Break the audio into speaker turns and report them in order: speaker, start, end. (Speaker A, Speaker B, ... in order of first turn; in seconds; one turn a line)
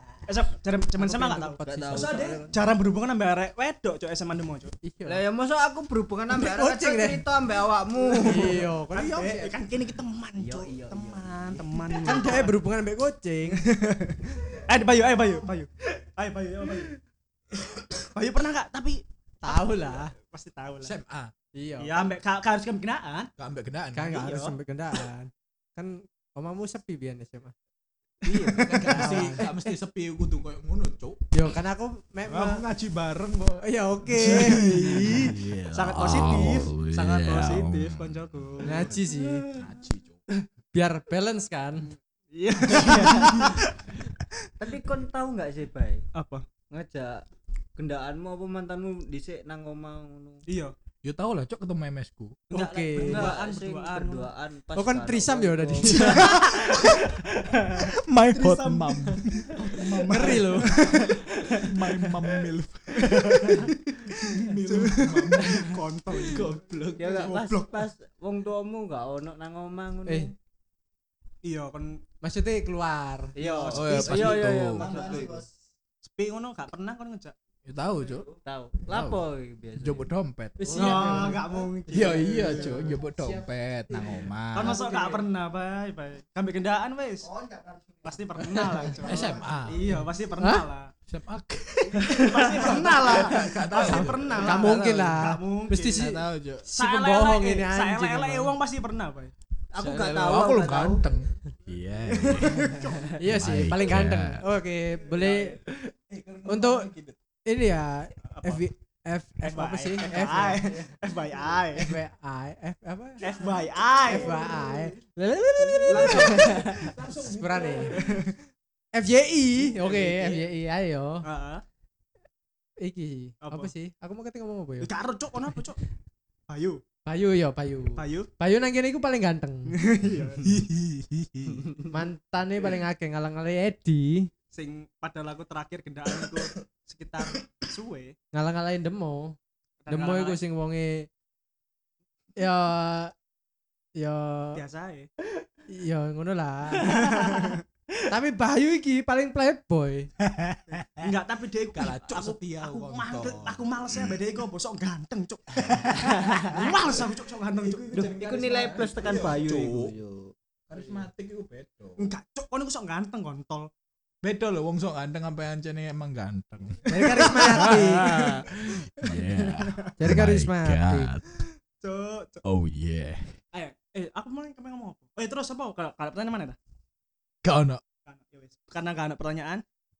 Speaker A: 0.3-4.7
Speaker B: 1.0-2.4
Speaker C: 1.6-2.6
Speaker D: 1.9-2.4
Speaker B: 4.8-5.2
Speaker C: 5.0-8.7
Speaker B: 6.3-7.2
Speaker A: 8.1-12.6
Speaker B: 8.2-9.6
Speaker C: 10.4-12.3
Speaker B: 12.0-13.6
Speaker A: 13.5-17.0
Speaker A: 18.0-20.9
Speaker B: 19.4-20.1
Speaker D: 20.8-21.3
Speaker B: 21.5-22.1
Speaker A: 21.8-23.3
Speaker D: 23.4-24.2
Speaker B: 23.9-27.5
Speaker A: 24.1-24.6
Speaker B: 28.2-29.8
Speaker D: 28.2-31.2
Speaker B: 31.3-32.6
Speaker D: 32.3-38.9
Speaker B: 33.6-35.4
Speaker A: 34.3-39.0
Speaker B: 38.6-39.5
Speaker D: 39.5-40.2
Speaker B: 40.7-41.9
Speaker A: 42.3-44.0
Speaker C: 42.7-43.4
Speaker C: 44.6-46.1
Speaker A: 46.1-46.5
Speaker C: 46.7-47.2
Speaker C: 47.8-50.4
Speaker A: 50.5-50.7
Speaker D: 51.0-52.4
Speaker C: 52.5-56.9
Speaker B: 52.5-53.4
Speaker A: 52.6-54.3
Speaker B: 54.8-56.6
Speaker A: 55.9-62.3
Speaker D: 57.8-67.4
Speaker B: 60.0-61.0
Speaker A: 63.0-67.8
Speaker C: 67.0-70.3
Speaker A: 71.4-72.0
Speaker B: 72.2-73.3
Speaker C: 73.4-75.4
Speaker A: 73.4-75.3
Speaker D: 73.7-75.1
Speaker E: 74.8-75.5
Speaker A: 76.0-77.3
Speaker D: 77.7-78.3
Speaker C: 78.4-81.4
Speaker D: 78.9-79.2
Speaker D: 79.8-81.3
Speaker B: 80.7-81.4
Speaker A: 80.7-83.0
Speaker D: 81.9-84.8
Speaker A: 84.5-87.3
Speaker C: 84.7-85.2
Speaker E: 87.2-89.8
Speaker A: 88.0-90.9
Speaker B: 88.4-89.0
Speaker D: 89.0-90.1
Speaker B: 90.4-90.7
Speaker D: 91.1-95.1
Speaker A: 92.0-99.3
Speaker C: 92.1-93.3
Speaker B: 93.8-98.6
Speaker D: 95.9-96.7
Speaker C: 99.7-101.0
Speaker D: 99.8-104.4
Speaker A: 102.2-103.1
Speaker B: 103.2-105.6
Speaker D: 105.1-107.2
Speaker B: 106.5-106.9
Speaker B: 107.5-111.0
Speaker A: 108.3-108.7
Speaker A: 109.4-112.0
Speaker B: 111.8-113.2
Speaker A: 113.2-114.5
Speaker D: 113.2-113.6
Speaker B: 114.0-118.0
Speaker D: 114.1-114.8
Speaker D: 115.8-118.2
Speaker A: 115.9-116.9
Speaker A: 117.9-118.3
Speaker B: 118.9-121.3
Speaker A: 119.6-120.5
Speaker A: 121.2-121.6
Speaker B: 122.8-124.9
Speaker A: 123.4-123.7
Speaker A: 124.8-125.8
Speaker A: 126.5-126.8
Speaker B: 127.0-129.8
Speaker A: 128.0-128.3
Speaker A: 129.7-130.6
Speaker D: 130.4-131.7
Speaker B: 131.9-134.3
Speaker A: 134.5-138.2
Speaker B: 138.3-139.4
Speaker A: 139.8-140.4
Speaker B: 139.9-141.1
Speaker B: 142.4-143.1
Speaker B: 144.0-144.6
Speaker A: 144.6-145.1
Speaker B: 145.7-147.2
Speaker A: 146.8-147.6
Speaker B: 148.1-150.1
Speaker D: 150.3-151.1
Speaker A: 151.0-159.2
Speaker D: 151.7-154.2
Speaker C: 155.8-156.8
Speaker D: 156.8-159.9
Speaker C: 157.9-160.3
Speaker D: 160.7-162.1
Speaker A: 162.0-163.7
Speaker D: 164.2-171.2
Speaker A: 166.8-168.4
Speaker B: 166.9-168.3
Speaker A: 169.0-169.9
Speaker B: 170.0-171.2
Speaker A: 171.8-172.4
Speaker D: 172.4-173.3
Speaker A: 173.5-176.6
Speaker D: 177.4-177.8
Speaker A: 178.1-179.6